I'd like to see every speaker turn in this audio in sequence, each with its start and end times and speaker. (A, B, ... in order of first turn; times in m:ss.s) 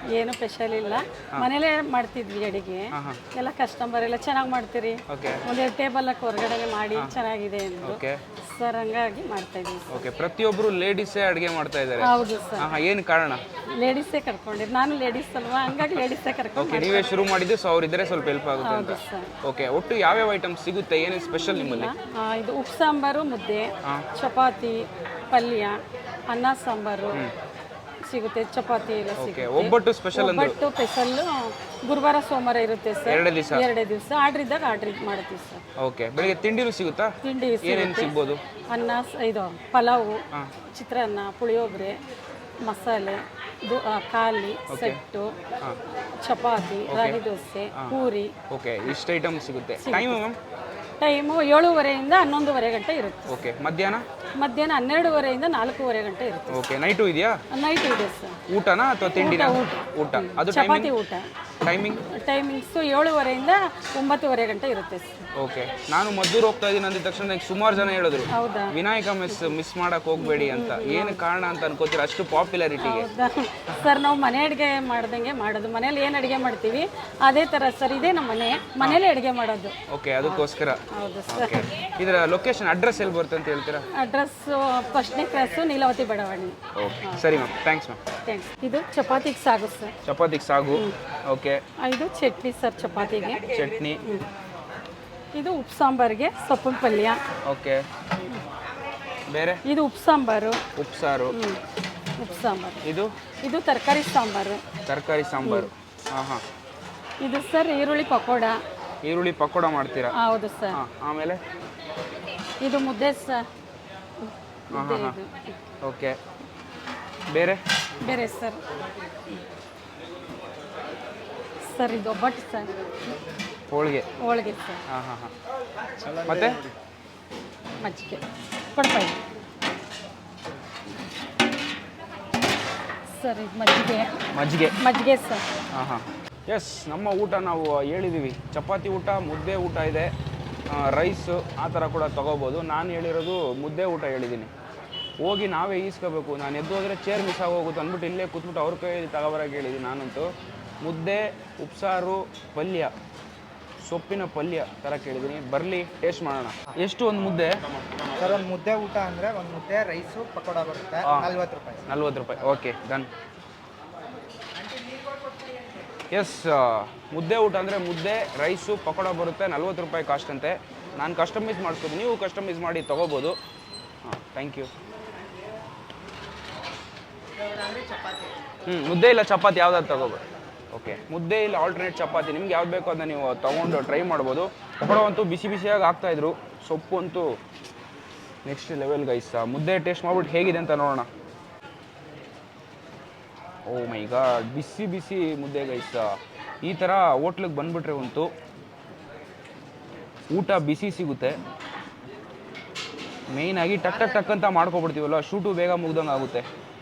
0:00.1-0:09.9 A
0:02.9-0:03.2 B
0:05.1-0:05.4 B
0:07.8-0:08.2 B
0:09.9-0:13.4 B
0:12.0-0:12.7 A
0:13.8-0:17.1 A
0:15.7-0:16.0 B
0:16.6-0:21.9 B
0:18.6-0:19.3 A
0:21.4-0:27.2 A
0:28.0-0:35.6 A
0:29.2-0:30.6 B
0:33.0-0:33.6 B
0:35.8-0:38.4 B
0:37.2-0:38.2 A
0:38.7-0:42.0 A
0:42.6-0:45.3 A
0:44.7-0:45.0 B
0:46.2-0:48.3 A
0:46.9-0:47.2 B
0:48.5-0:50.4 B
0:49.8-0:50.2 A
0:51.0-0:53.3 A
0:53.3-0:54.0 B
0:54.4-0:56.6 A
0:56.5-0:57.4 B
0:57.5-0:58.4 A
0:58.5-1:00.9 B
0:59.1-1:01.3 A
1:01.6-1:02.0 B
1:02.1-1:05.2 A
1:05.4-1:13.1 B
1:08.3-1:08.8 A
1:10.2-1:11.2 A
1:12.8-1:21.6 A
1:19.9-1:23.8 B
1:23.9-1:27.2 A
1:26.8-1:28.0 B
1:28.2-1:29.9 A
1:30.0-1:31.6 B
1:31.8-1:33.4 A
1:33.5-1:34.0 B
1:35.3-1:37.2 A
1:37.4-1:37.8 B
1:39.3-1:39.6 B
1:39.6-1:40.6 A
1:40.7-1:41.4 B
1:41.3-1:41.6 A
1:42.2-1:42.8 A
1:42.8-1:43.1 B
1:43.4-1:44.6 A
1:44.8-1:46.4 B
1:45.4-1:45.7 A
1:47.2-1:48.6 A
1:49.0-1:50.1 B
1:50.1-1:50.8 A
1:50.7-1:51.4 B
1:52.6-1:53.5 A
1:54.2-1:55.6 A
1:54.7-1:55.2 B
1:55.8-1:56.2 B
1:57.3-1:57.6 B
1:58.0-1:58.6 A
2:01.7-2:02.7 A
2:03.7-2:04.1 B
2:04.2-2:04.8 A
2:04.9-2:05.3 B
2:06.0-2:06.6 B
2:07.8-2:09.2 A
2:13.1-2:14.2 A
2:14.3-2:14.8 B
2:14.8-2:15.4 A
2:15.7-2:20.1 B
2:20.7-2:24.5 B
2:25.2-2:30.3 B
2:30.8-2:32.9 B
2:33.8-2:37.5 B
2:38.2-2:41.8 C
2:41.0-2:41.3 B
2:41.9-2:43.1 B
2:46.1-2:53.4 B
2:54.0-2:54.7 B
2:58.6-3:07.4 B
3:08.4-3:11.1 B
3:13.6-3:18.3 B
3:20.3-3:21.4 B
3:23.3-3:26.4 B